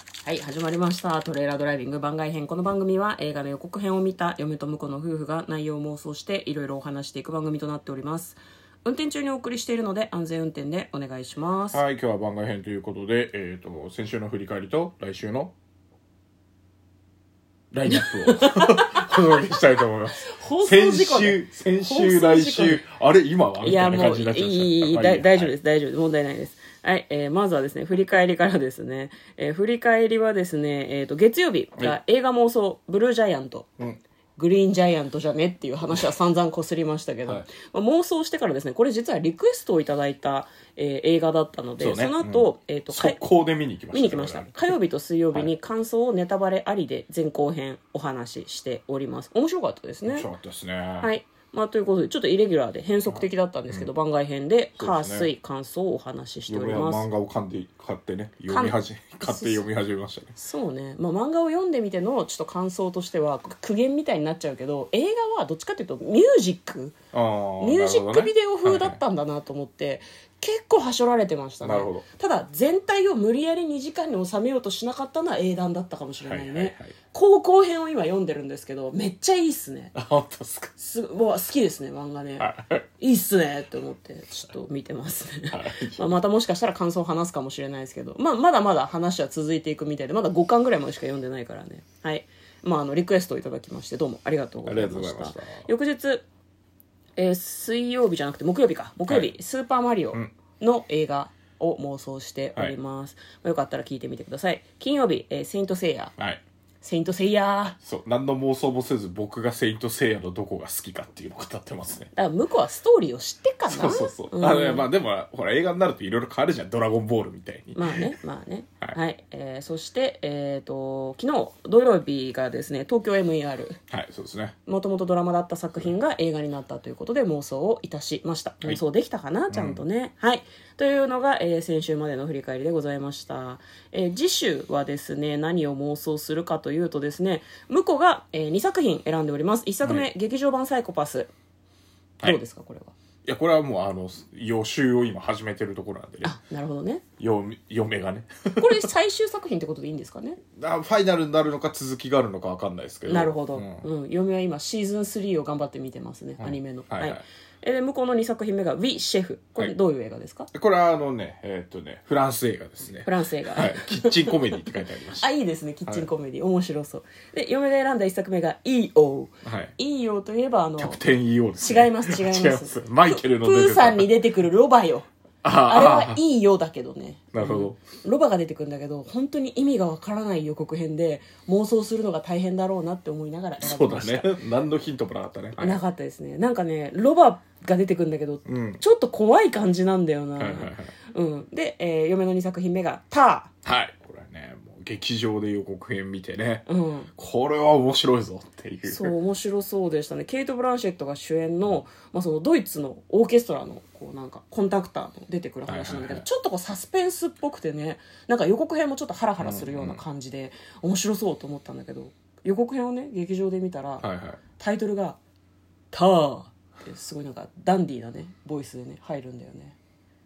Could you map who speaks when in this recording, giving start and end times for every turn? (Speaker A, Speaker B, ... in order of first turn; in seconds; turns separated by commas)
Speaker A: 0.2-11.8, Speaker B: 11.7-15.5, Speaker B: 17.7-25.5, Speaker A: 17.9-19.1, Speaker A: 20.2-22.8, Speaker A: 23.6-33.7, Speaker A: 34.4-43.2, Speaker B: 41.8-44.7, Speaker A: 43.9-50.3, Speaker B: 50.0-51.1, Speaker A: 51.0-57.1, Speaker B: 53.1-53.9, Speaker B: 54.8-55.3, Speaker B: 56.5-60.4, Speaker A: 58.5-59.7, Speaker A: 60.4-67.0, Speaker B: 67.1-69.0, Speaker A: 67.6-80.0, Speaker B: 71.6-72.0, Speaker B: 76.2-76.9, Speaker B: 80.0-80.7, Speaker A: 80.8-96.2, Speaker B: 82.4-82.8, Speaker B: 85.5-86.1, Speaker B: 94.7-95.7, Speaker A: 97.2-106.1, Speaker A: 106.8-107.8, Speaker B: 107.8-112.1, Speaker A: 112.1-114.9, Speaker B: 113.7-118.1, Speaker A: 117.8-123.8, Speaker B: 123.9-124.5, Speaker A: 124.7-141.3, Speaker B: 129.5-129.8, Speaker A: 142.2-142.9, Speaker B: 143.2-146.4, Speaker A: 146.2-147.0, Speaker B: 147.2-148.8, Speaker A: 148.6-150.4, Speaker B: 150.6-153.9, Speaker A: 153.1-160.5, Speaker B: 156.4-157.2, Speaker B: 160.5-165.3, Speaker A: 163.0-164.6, Speaker A: 165.1-171.0, Speaker B: 169.4-169.7, Speaker B: 170.8-174.1, Speaker A: 171.6-184.4, Speaker B: 175.4-176.2, Speaker B: 177.3-177.8, Speaker B: 183.6-185.8, Speaker A: 185.6-193.5, Speaker B: 188.4-188.8, Speaker B: 190.4-190.9, Speaker B: 193.6-196.7, Speaker A: 196.7-197.1, Speaker B: 197.2-199.1, Speaker A: 198.8-215.2, Speaker B: 205.7-206.2, Speaker B: 209.4-210.0, Speaker B: 214.0-214.4, Speaker A: 215.9-219.8